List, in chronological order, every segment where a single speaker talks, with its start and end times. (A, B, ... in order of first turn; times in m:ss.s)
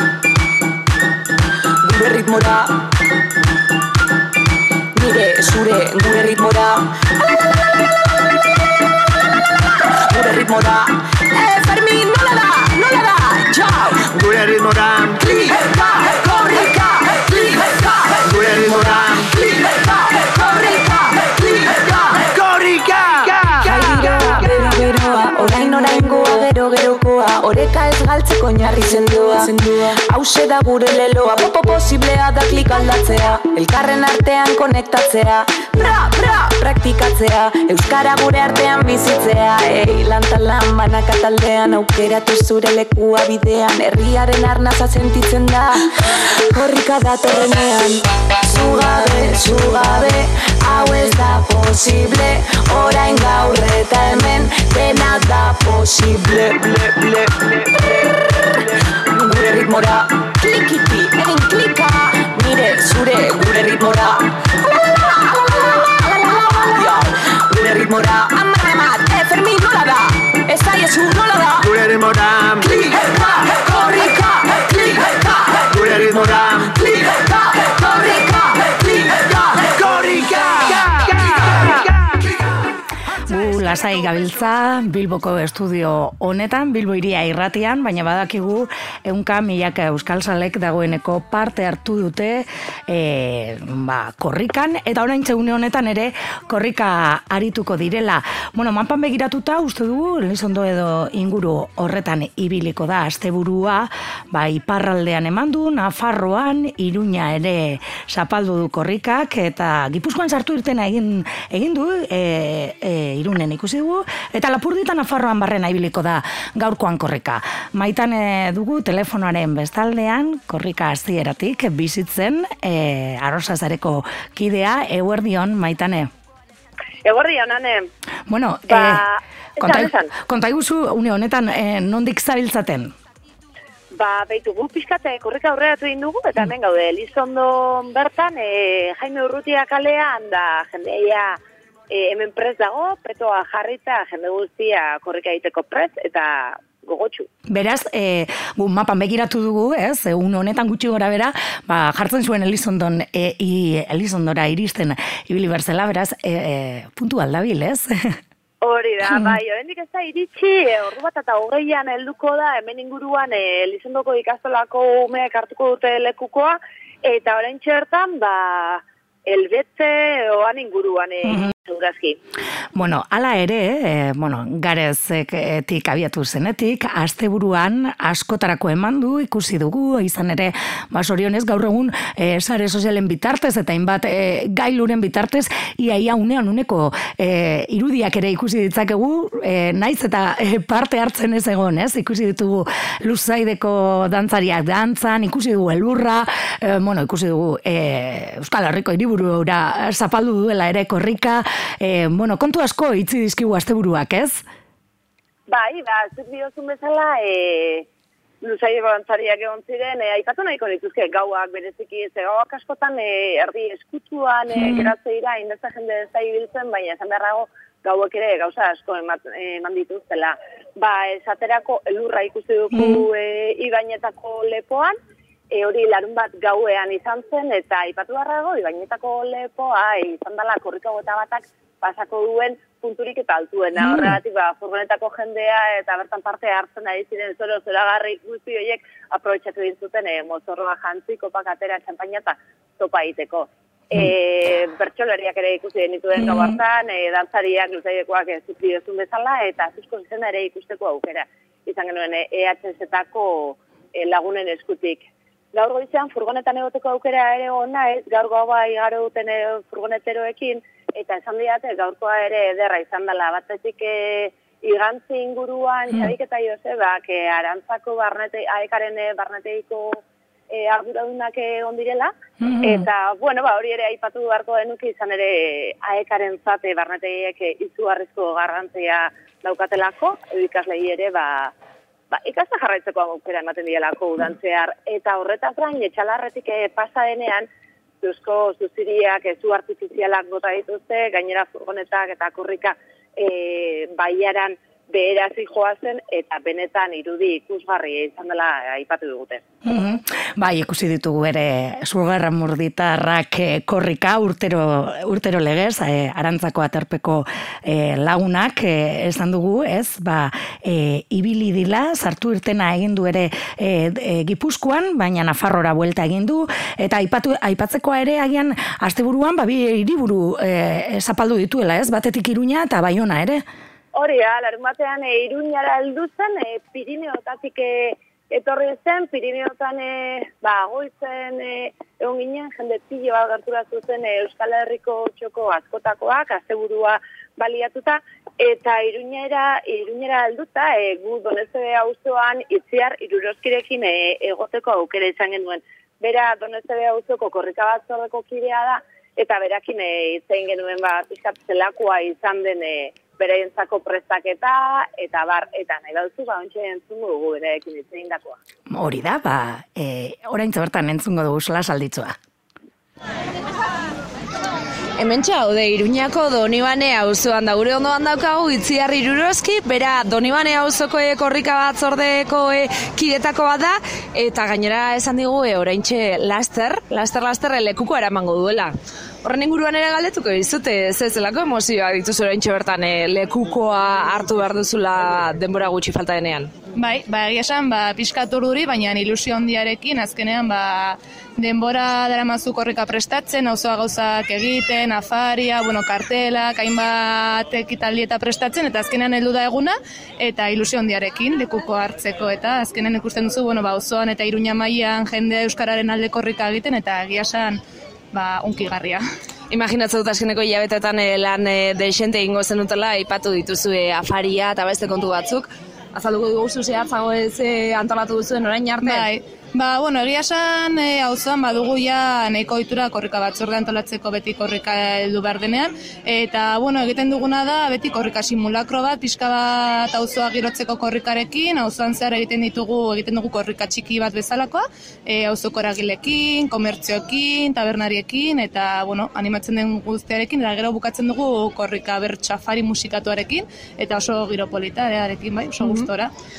0:01.8-0:02.8 A
0:04.9-0:06.9 A
0:09.9-0:14.2 A
0:14.2-0:15.2 B
0:15.2-0:22.3 A
0:18.2-0:19.2 B
0:22.3-0:24.5 B
0:23.6-1:11.8 A
1:11.6-1:12.6 B
1:12.6-1:19.7 A
1:15.8-1:16.4 B
1:19.7-1:22.2 B
1:23.3-2:06.1 C
2:07.0-2:07.9 D
2:08.3-2:09.1 C
2:08.7-2:10.1 D
2:09.6-2:12.9 C
2:13.9-2:27.3 D
2:27.5-2:38.2 C
2:38.6-2:52.2 D
2:39.0-2:39.4 C
2:51.2-2:51.5 C
2:52.7-3:24.4 C
3:25.5-3:27.9 D
3:28.4-3:45.0 D
3:34.5-3:34.9 C
3:42.7-3:43.0 C
3:45.5-4:41.5 D
3:53.8-3:54.2 C
4:06.2-4:06.6 C
4:32.4-4:32.8 C
4:42.1-4:47.5 D
4:48.0-4:59.4 D
4:59.6-5:23.4 C
5:23.9-5:58.4 D
5:58.7-6:02.2 C
6:05.0-6:26.5 E
6:26.8-6:47.6 F
6:48.1-6:49.0 F
6:49.5-6:59.1 E
6:58.8-7:26.1 F
7:25.6-7:25.9 E